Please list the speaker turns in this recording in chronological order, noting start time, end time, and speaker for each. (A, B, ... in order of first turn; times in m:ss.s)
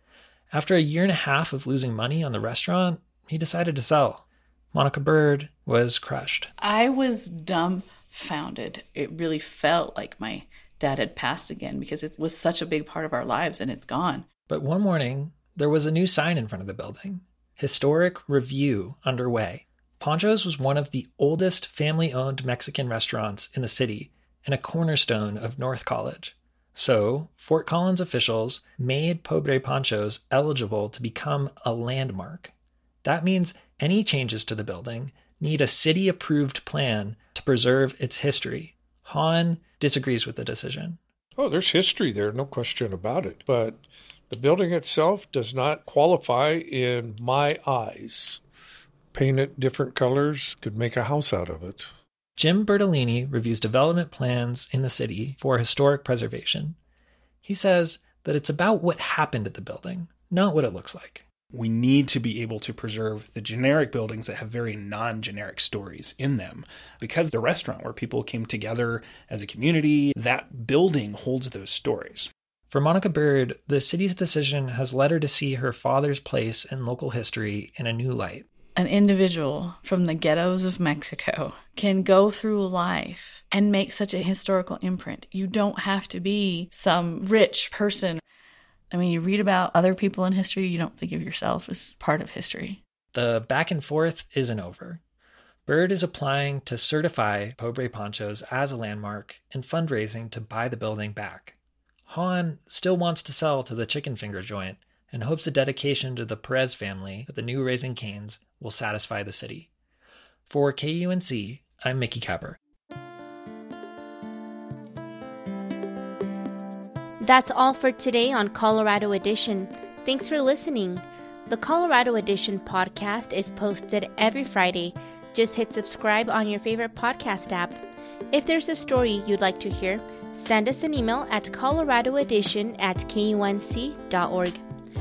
0:00.5-0:06.5 A
0:06.6-0:14.2 B
0:14.5-0:32.5 A
0:33.0-0:41.0 A
0:41.4-0:48.4 C
0:49.1-0:51.9 C
0:52.4-0:56.8 A
0:57.4-1:01.2 A
1:01.5-1:12.3 D
1:12.7-1:18.4 A
1:18.8-1:28.2 B
1:28.9-1:32.8 B
1:33.1-1:35.0 A
1:35.6-1:41.6 A
1:42.1-1:49.7 A
1:50.5-1:52.6 A
1:57.2-2:07.8 E
2:08.3-2:14.6 E